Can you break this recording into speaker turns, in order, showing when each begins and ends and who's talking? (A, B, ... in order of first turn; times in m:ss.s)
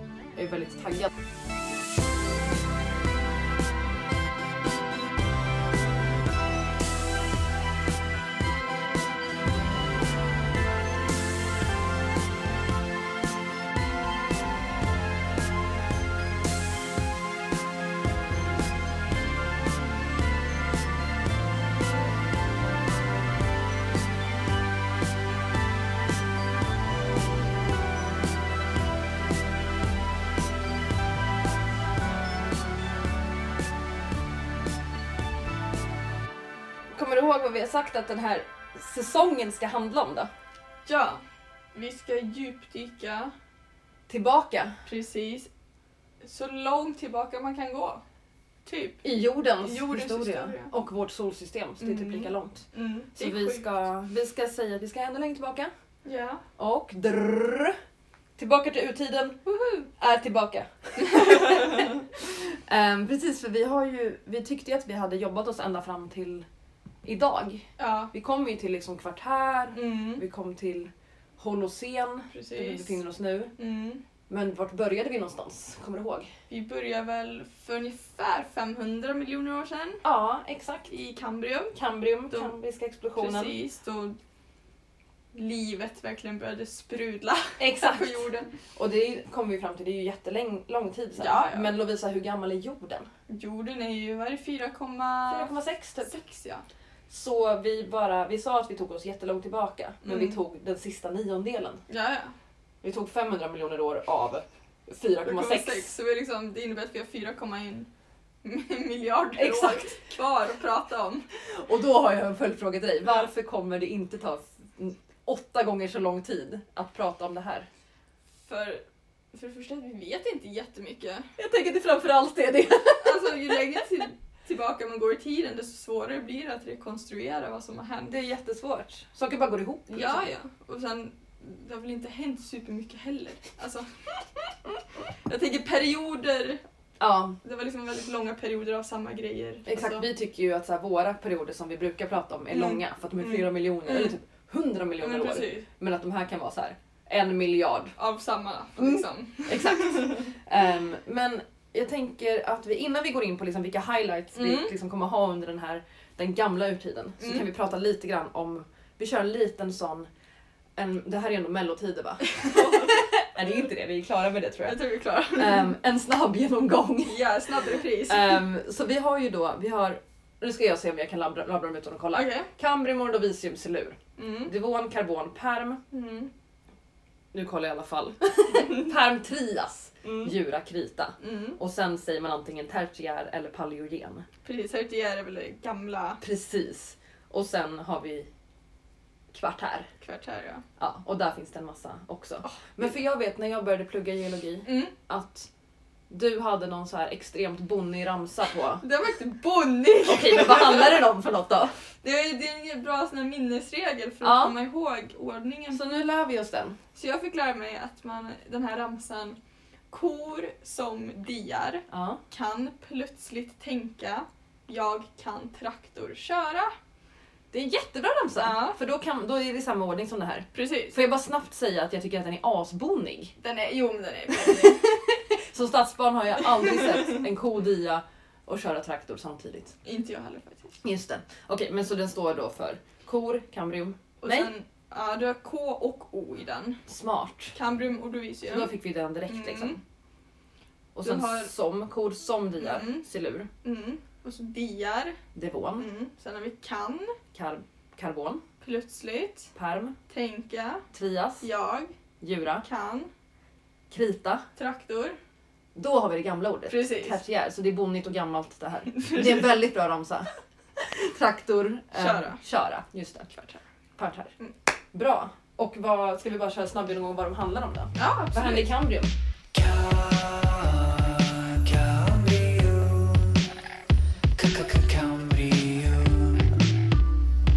0:00.4-0:01.1 A
0:36.9-0:40.3 A
0:40.8-0:41.2 B
0:41.7-0:43.3 B
0:44.1-0:44.8 A
0:44.8-0:45.5 B
0:46.2-0:48.0 B
0:48.6-0:49.0 B
0:49.0-0:55.7 A
0:49.6-0:50.7 B
0:51.8-0:53.7 B
0:56.0-0:56.4 B
0:56.6-0:57.8 A
0:58.4-1:06.4 A
0:59.5-0:59.8 B
1:01.1-1:01.9 B
1:07.0-1:13.5 A
1:07.8-1:08.1 B
1:09.7-1:10.2 B
1:12.3-1:13.0 B
1:13.6-1:14.0 B
1:14.3-1:16.3 A
1:16.5-1:20.0 B
1:20.0-1:20.9 A
1:20.9-1:21.8 B
1:21.7-1:23.6 A
1:22.3-1:22.5 B
1:23.2-1:24.2 B
1:25.3-1:28.5 B
1:27.6-1:33.1 A
1:31.2-1:31.7 B
1:33.3-1:35.5 B
1:35.3-1:36.2 A
1:36.0-1:36.6 B
1:37.1-1:41.8 A
1:40.0-1:40.4 B
1:41.9-1:42.3 B
1:42.8-1:45.9 A
1:45.2-1:47.9 B
1:48.4-1:51.2 B
1:49.4-1:50.0 A
1:51.4-1:57.7 A
1:58.4-2:01.3 B
2:01.4-2:03.6 A
2:03.0-2:08.1 B
2:08.0-2:10.3 A
2:09.9-2:16.6 B
2:17.0-2:17.4 A
2:17.4-2:20.1 B
2:19.6-2:28.0 A
2:22.5-2:24.1 B
2:25.0-2:25.7 B
2:28.0-2:30.3 B
2:28.8-2:40.1 A
2:34.3-2:34.7 B
2:37.2-2:37.5 B
2:40.8-2:44.8 A
2:42.3-2:43.1 B
2:44.6-2:45.7 B
2:45.3-2:47.3 A
2:47.0-2:48.4 B
2:48.0-2:55.8 A
2:52.1-2:52.5 B
2:54.2-2:54.5 B
2:55.9-2:56.3 B
2:57.3-3:04.2 A
3:00.0-3:00.3 B
3:01.2-3:01.6 B
3:04.4-3:06.2 B
3:06.2-3:08.3 A
3:09.3-3:09.9 A
3:10.0-3:10.6 B
3:10.8-3:15.5 A
3:12.4-3:12.8 B
3:14.6-3:14.9 B
3:16.1-3:18.8 A
3:18.8-3:21.0 B
3:20.0-3:21.8 A
3:22.0-3:25.8 B
3:24.2-3:24.5 A
3:25.7-3:26.8 A
3:26.9-3:29.4 B
3:29.9-3:36.7 B
3:31.9-3:32.2 A
3:37.5-3:43.3 A
3:38.4-3:38.8 B
3:40.5-3:41.0 B
3:43.4-3:44.8 B
3:44.4-3:49.8 A
3:46.4-3:47.2 B
3:49.8-3:50.8 B
3:50.8-3:54.5 A
3:54.2-3:56.8 B
3:56.9-3:57.6 A
3:57.5-3:58.7 B
3:58.4-3:59.8 A
3:59.3-3:59.8 B
4:00.9-4:03.5 A
4:01.0-4:01.5 B
4:02.6-4:03.0 B
4:03.6-4:05.2 B
4:05.3-4:05.9 A
4:05.8-4:07.2 B
4:07.3-4:08.4 A
4:08.6-4:09.5 B
4:09.5-4:10.0 A
4:10.1-4:10.8 B
4:10.9-4:11.5 A
4:11.4-4:11.9 B
4:12.2-4:12.6 A
4:12.6-4:13.1 B
4:13.9-4:14.4 A
4:14.6-4:15.2 B
4:15.7-4:23.3 A
4:16.7-4:17.2 B
4:18.9-4:19.5 B
4:21.9-4:22.4 B
4:23.3-4:23.6 B
4:24.0-4:24.3 A
4:24.9-4:29.1 A
4:27.9-4:28.7 B
4:29.5-4:33.5 C
4:34.4-4:36.5 C